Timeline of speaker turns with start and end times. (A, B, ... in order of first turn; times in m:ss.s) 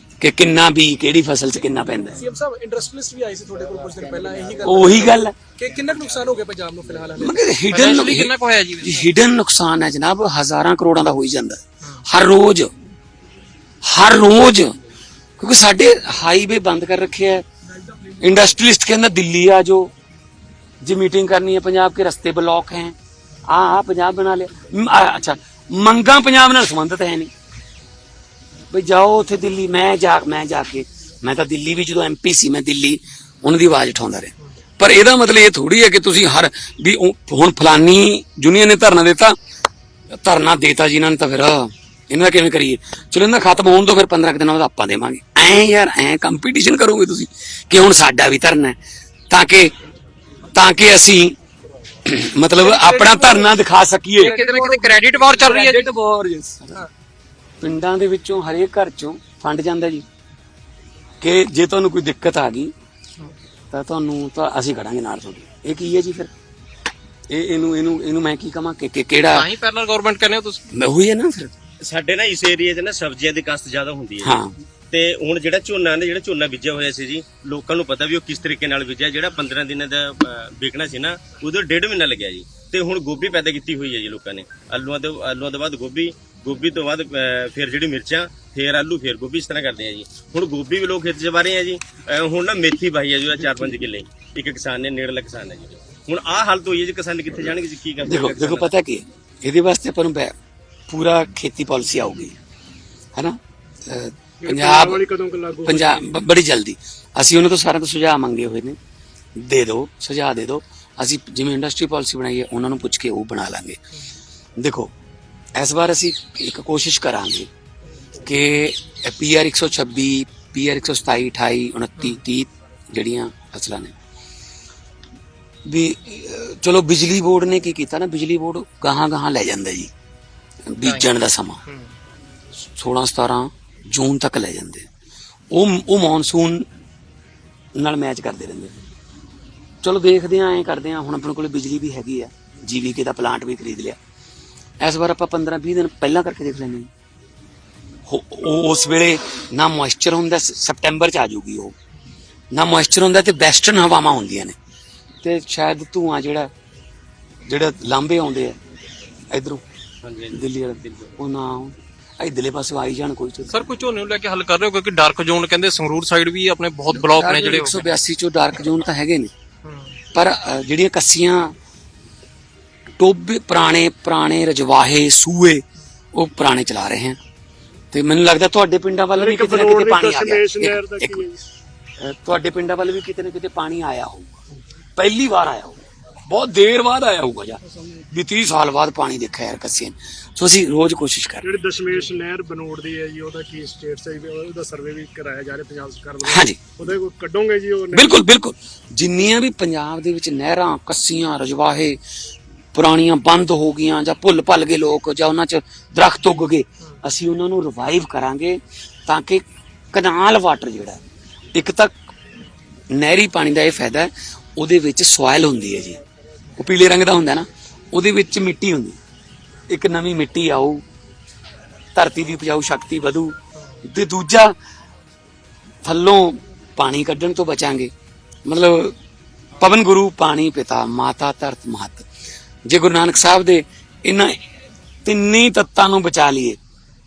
0:00.2-0:02.2 A
0:02.2-0:07.4 B
0:04.6-0:05.4 A
0:07.2-0:12.7 A
0:07.7-0:09.1 C
0:13.8-0:14.8 A
0:15.4-0:17.5 A
0:18.2-0:19.9 A
0:20.8-0:23.0 A
0:23.5-0:27.3 A
0:28.7-0:39.4 A
0:40.1-0:48.8 A
0:49.3-0:49.7 A
0:50.5-0:51.4 A
0:52.0-0:54.3 A
0:52.6-0:53.5 B
0:54.2-0:55.9 C
0:54.2-0:55.2 B
0:55.3-0:56.8 A
0:57.6-1:00.0 A
1:01.2-1:02.7 A
1:03.7-1:06.3 A
1:07.3-1:09.5 A
1:09.3-1:10.6 C
1:10.7-1:11.5 A
1:11.8-1:14.4 D
1:14.2-1:14.6 A
1:14.9-1:38.7 D
1:38.0-1:40.3 A
1:40.9-1:42.4 A
1:43.2-1:45.0 A
1:44.4-1:46.1 E
1:45.6-1:48.8 A
1:49.4-1:53.8 A
1:54.6-1:54.9 A
1:55.6-1:57.5 A
1:58.2-2:03.9 A
2:05.7-2:09.9 A
2:10.7-2:11.6 A
2:12.7-2:14.9 A
2:15.5-2:16.7 A
2:17.8-2:18.7 A
2:19.8-2:24.0 A
2:24.8-2:26.9 A
2:28.1-2:31.8 A
2:32.5-2:34.6 A
2:35.2-2:36.5 A
2:37.5-2:38.6 A
2:39.3-2:39.6 A
2:40.0-2:40.4 D
2:40.3-2:43.7 A
2:43.5-2:47.9 C
2:46.9-2:49.3 A
2:49.6-2:50.0 C
2:50.1-2:51.5 A
2:53.0-2:55.6 A
2:56.2-2:57.2 A
2:57.9-3:01.2 A
2:59.2-3:01.4 E
3:02.0-3:04.4 A
3:05.0-3:11.5 A
3:11.4-3:18.2 E
3:16.2-3:16.6 A
3:17.9-3:22.0 A
3:22.7-3:31.0 A
3:31.6-3:32.0 A
3:32.9-3:36.0 A
3:36.6-3:39.0 A
3:39.7-3:40.8 A
3:42.0-3:44.5 A
3:45.8-3:47.9 A
3:48.5-3:49.0 A
3:49.6-3:52.1 A
3:52.7-3:54.4 A
3:55.0-3:56.6 A